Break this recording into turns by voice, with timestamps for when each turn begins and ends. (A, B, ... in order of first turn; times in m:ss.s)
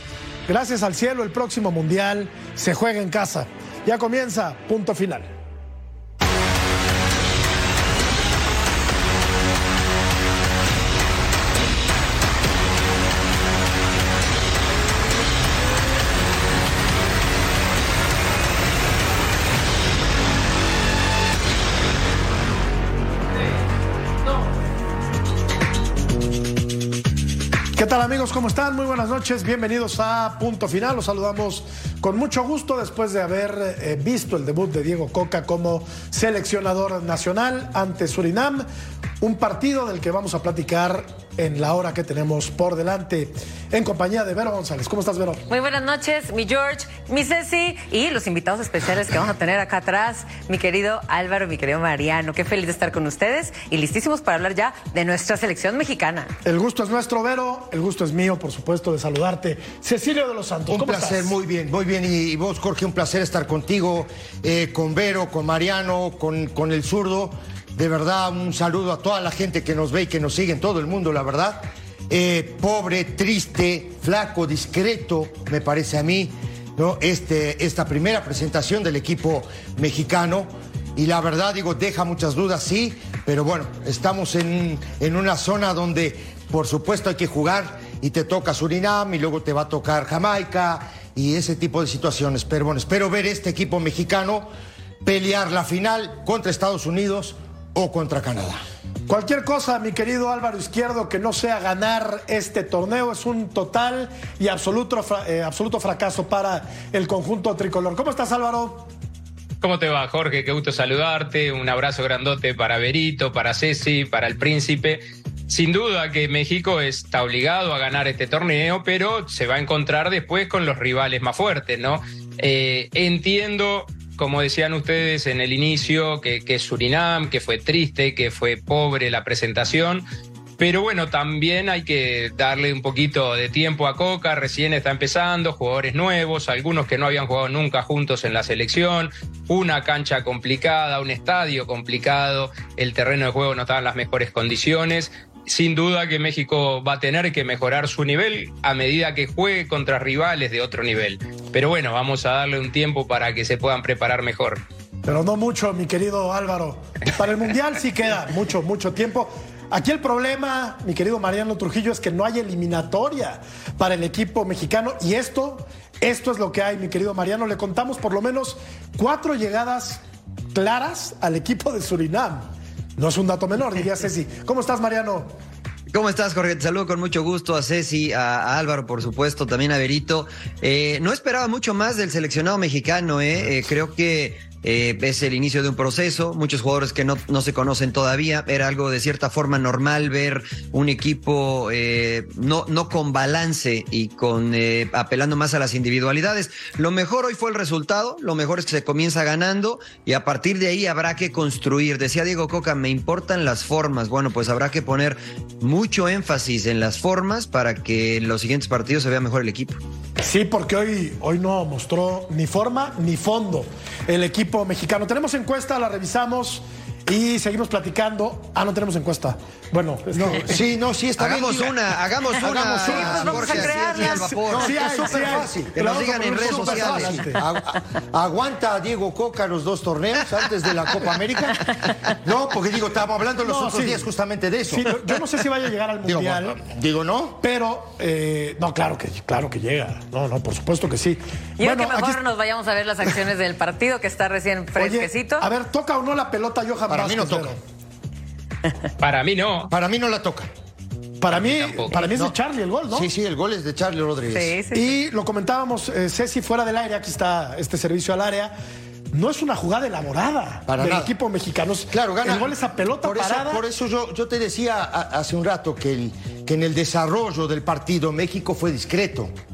0:00.5-0:05.3 A
0:27.8-0:38.6 A
0:39.2-0:45.4 A
0:45.5-0:56.3 B
0:56.4-1:01.3 A
1:00.7-1:34.5 C
1:35.0-1:38.6 C
1:39.1-1:48.9 A
1:49.6-2:10.0 D
2:10.6-2:34.6 D
2:35.0-2:50.0 A
2:50.5-2:55.3 A
2:55.9-3:29.8 E
3:30.2-3:40.6 A
3:40.1-3:41.8 C
3:41.2-3:47.3 E
3:42.4-3:47.4 A
3:42.4-3:54.9 C
3:43.3-3:44.2 B
3:53.4-3:54.0 A
3:54.7-3:56.6 A
3:56.0-3:57.4 C
3:57.4-4:02.2 A
4:01.6-4:05.5 B
4:04.8-4:07.6 A
4:06.9-4:07.5 C
4:09.0-4:09.7 D
4:09.7-4:10.5 C
4:11.2-4:13.1 A
4:11.3-4:12.0 D
4:12.1-4:12.3 C
4:12.9-4:14.6 C
4:14.3-4:14.9 B
4:14.7-4:18.5 A
4:19.1-4:23.6 A
4:20.7-4:21.1 C
4:21.9-4:29.3 C